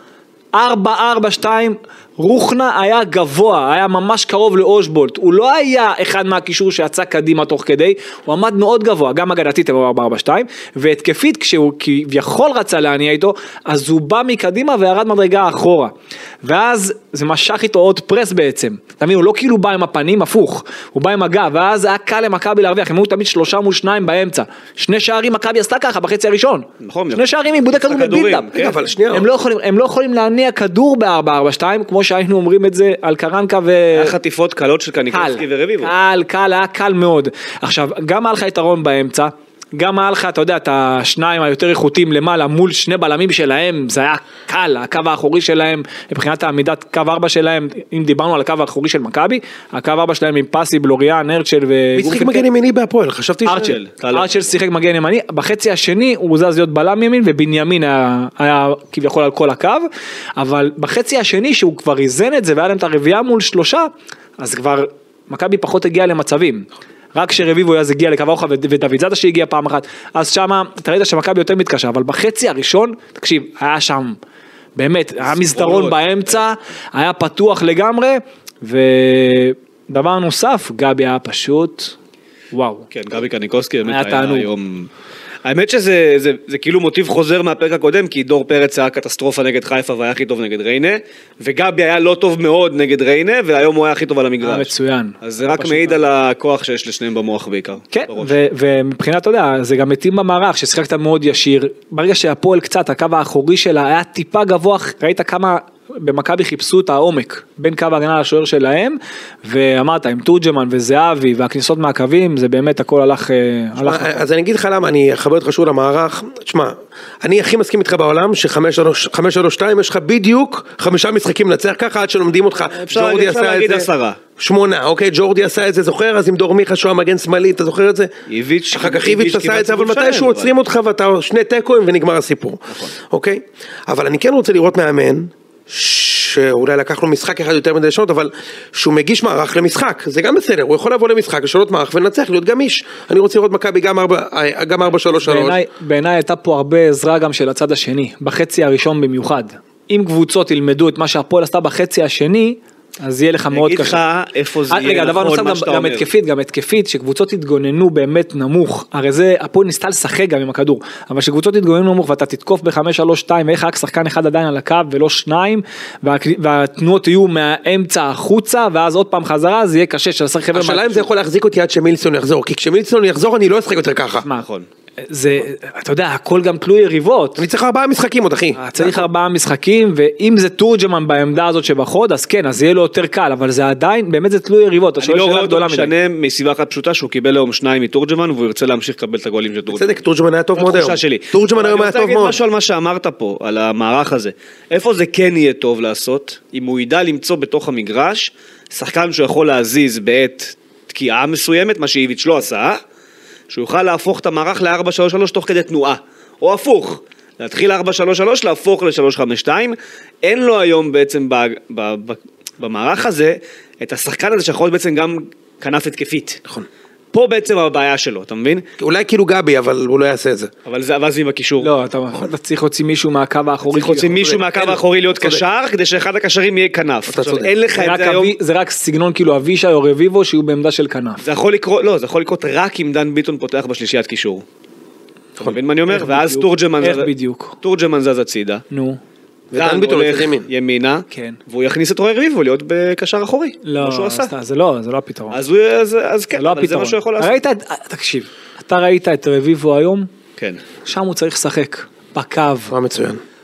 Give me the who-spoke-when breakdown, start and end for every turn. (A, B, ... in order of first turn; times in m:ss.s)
0:00.5-0:28.5 A
0:26.8-0:28.8 B
0:28.5-0:29.3 C
0:29.1-0:34.1 A
0:33.9-0:35.9 B
0:35.1-0:52.5 A
0:52.0-0:53.8 C
0:53.5-1:14.2 A
0:53.5-0:54.3 B
1:14.8-1:22.0 A
1:15.2-1:16.4 B
1:22.5-1:22.9 A
1:22.9-1:24.9 B
1:23.9-1:24.5 A
1:25.4-1:34.7 B
1:34.4-1:36.0 A
1:35.2-1:38.4 B
1:37.9-1:54.2 A
1:53.8-2:08.1 C
2:02.8-2:04.2 B
2:08.3-2:10.5 B
2:08.7-2:25.6 C
2:25.2-2:34.0 A
2:33.5-2:36.1 B
2:34.7-2:51.1 A
2:50.5-2:54.2 C
2:54.4-2:54.7 B
2:55.0-2:57.4 A
2:57.4-2:59.0 C
2:58.6-3:05.9 A
3:05.0-3:10.0 B
3:09.7-3:12.4 C
3:10.6-3:22.8 B
3:23.5-3:36.4 B
3:37.1-3:38.7 B
3:38.8-3:40.5 C
3:40.6-3:41.7 B
3:41.6-3:44.2 A
3:43.7-3:48.4 B
3:44.2-3:45.4 C
3:47.1-3:47.5 C
3:47.8-3:51.2 A
3:51.2-3:54.4 B
3:55.4-3:58.6 B
3:55.9-3:57.6 A
3:58.7-3:59.0 A
3:59.5-4:00.5 C
3:59.6-4:04.3 B
4:01.1-4:01.4 A
4:03.6-4:05.4 A
4:05.3-4:07.4 B
4:06.3-4:10.1 A
4:10.8-4:12.7 A
4:12.7-4:13.2 C